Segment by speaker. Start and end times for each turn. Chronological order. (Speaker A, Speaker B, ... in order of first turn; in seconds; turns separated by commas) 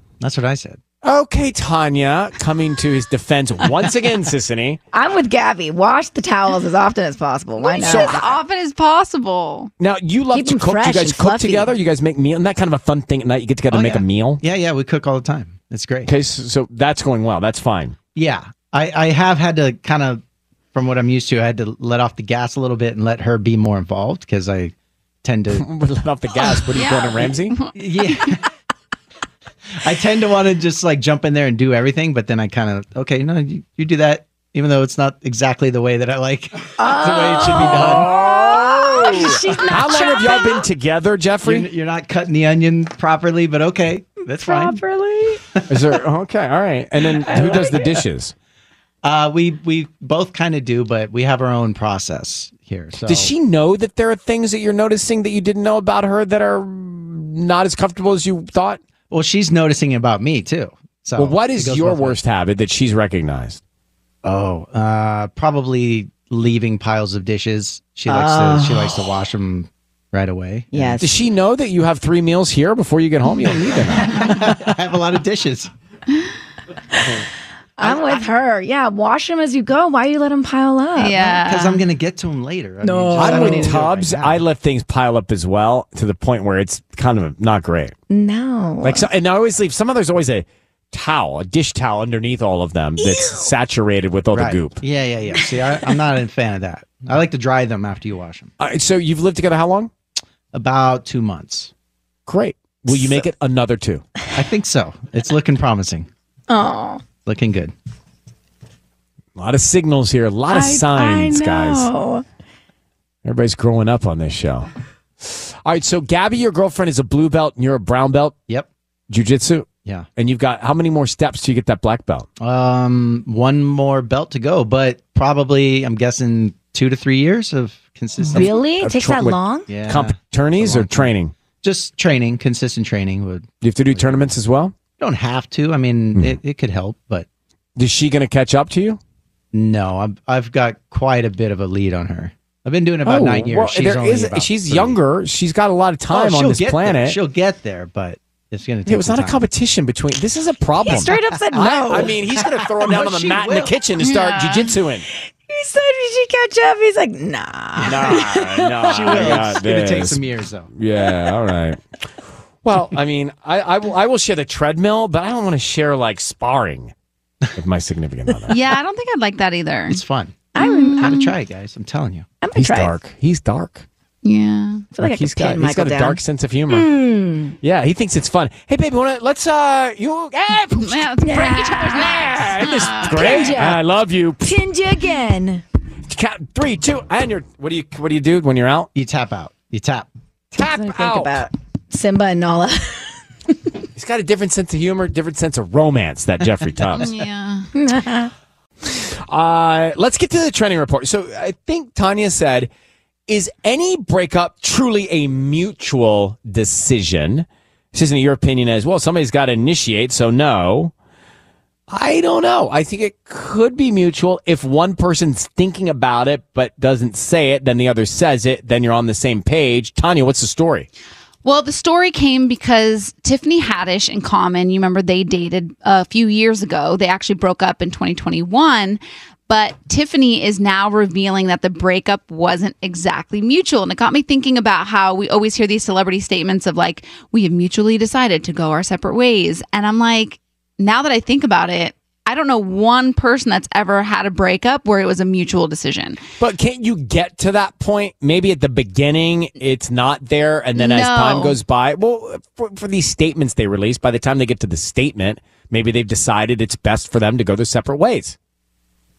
Speaker A: 0.2-0.8, Speaker B: 1.0-4.8, Speaker C: 4.9-8.3, Speaker D: 7.6-9.7, Speaker B: 7.8-8.3, Speaker B: 9.8-14.4, Speaker C: 10.3-11.7, Speaker A: 13.7-16.1, Speaker B: 16.1-18.0, Speaker A: 18.1-20.2, Speaker A: 20.7-25.7, Speaker B: 25.6-27.7, Speaker D: 26.7-27.7, Speaker A: 27.7-28.4, Speaker A: 29.8-38.1, Speaker C: 36.8-40.7, Speaker B: 37.3-41.7, Speaker A: 41.4-44.8, Speaker C: 44.3-45.4, Speaker A: 45.5-45.9, Speaker B: 45.7-48.3, Speaker C: 47.2-47.9, Speaker A: 47.2-47.9, Speaker A: 49.0-53.3, Speaker B: 53.0-58.8, Speaker A: 59.1-62.2, Speaker B: 61.2-63.6, Speaker A: 64.2-71.0, Speaker C: 68.1-69.1, Speaker C: 70.7-71.1, Speaker B: 71.0-74.3, Speaker A: 74.1-75.7, Speaker A: 77.8-78.2, Speaker C: 77.8-81.3, Speaker D: 81.0-81.8, Speaker A: 81.2-84.4, Speaker C: 82.8-83.8, Speaker B: 83.2-87.9, Speaker C: 88.1-89.1, Speaker B: 88.8-94.8, Speaker C: 93.0-93.5, Speaker A: 94.3-98.5, Speaker B: 98.6-99.9, Speaker A: 100.5-101.7, Speaker B: 102.2-104.0, Speaker A: 104.3-106.1, Speaker C: 106.5-107.0, Speaker A: 107.2-107.7, Speaker B: 109.3-111.9, Speaker C: 110.5-112.2, Speaker B: 113.2-114.7, Speaker B: 115.2-118.4, Speaker B: 119.1-122.3, Speaker A: 122.4-128.6, Speaker C: 128.2-129.7, Speaker B: 128.3-131.3, Speaker A: 129.7-131.1, Speaker A: 131.6-134.3, Speaker B: 133.6-134.7, Speaker A: 135.0-137.3, Speaker B: 137.8-139.0, Speaker A: 139.5-145.0, Speaker B: 143.0-147.2, Speaker A: 146.1-149.4, Speaker B: 148.8-155.1, Speaker C: 150.8-152.2, Speaker A: 151.6-153.7, Speaker D: 154.0-154.7, Speaker C: 155.5-159.6, Speaker A: 157.8-158.1, Speaker B: 157.8-161.8, Speaker A: 158.8-160.7, Speaker B: 162.6-166.9, Speaker B: 167.5-168.6, Speaker D: 168.5-170.0, Speaker A: 169.9-172.2, Speaker C: 170.5-171.2, Speaker D: 170.6-171.3, Speaker C: 172.4-173.0, Speaker B: 172.5-173.8, Speaker D: 174.2-174.9, Speaker C: 174.9-177.6, Speaker B: 175.0-176.9, Speaker B: 177.6-181.0, Speaker D: 180.8-183.5, Speaker C: 181.2-182.3, Speaker B: 181.9-184.6, Speaker C: 183.0-183.8, Speaker C: 184.4-185.6, Speaker B: 186.1-188.9, Speaker A: 188.9-190.1, Speaker B: 190.5-191.4, Speaker C: 190.5-193.5, Speaker B: 193.9-197.1, Speaker A: 196.6-197.1, Speaker D: 197.0-197.7, Speaker C: 197.7-198.3, Speaker B: 198.9-202.7, Speaker B: 203.3-210.9, Speaker B: 211.9-220.9, Speaker D: 221.4-246.2, Speaker B: 246.4-258.4, Speaker D: 250.8-251.6